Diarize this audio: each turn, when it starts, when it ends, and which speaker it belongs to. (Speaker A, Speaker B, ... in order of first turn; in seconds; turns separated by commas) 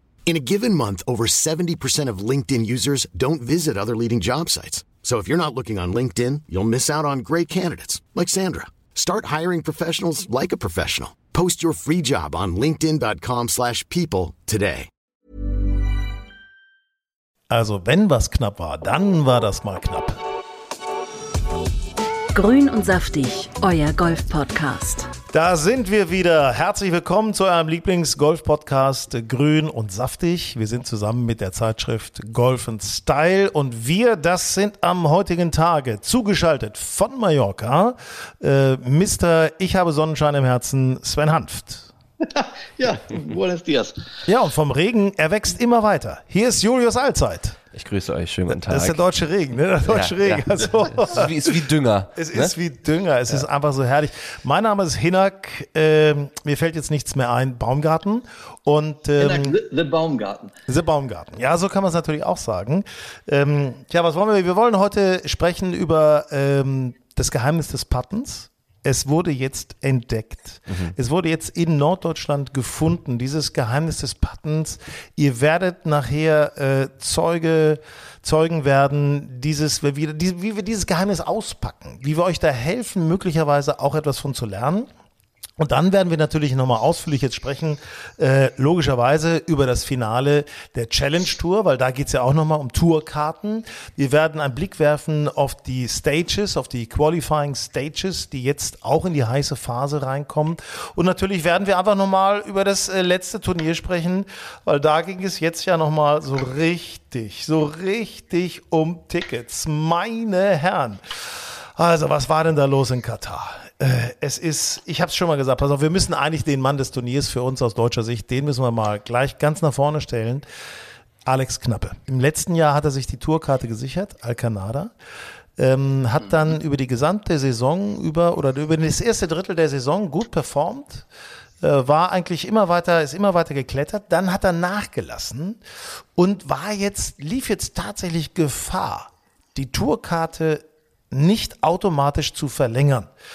Speaker A: 0.2-14.9, Speaker B: 17.5-20.2, Speaker C: 22.3-25.1, Speaker B: 25.3-41.9, Speaker D: 42.2-44.0, Speaker B: 44.3-47.6, Speaker E: 47.7-49.0, Speaker B: 48.5-59.5, Speaker E: 49.9-52.5, Speaker D: 59.2-60.5, Speaker B: 60.7-84.9, Speaker B: 85.6-111.0, Speaker B: 111.8-120.5, Speaker B: 121.2-124.9, Speaker B: 125.6-131.1, Speaker B: 131.6-135.6, Speaker B: 136.2-143.1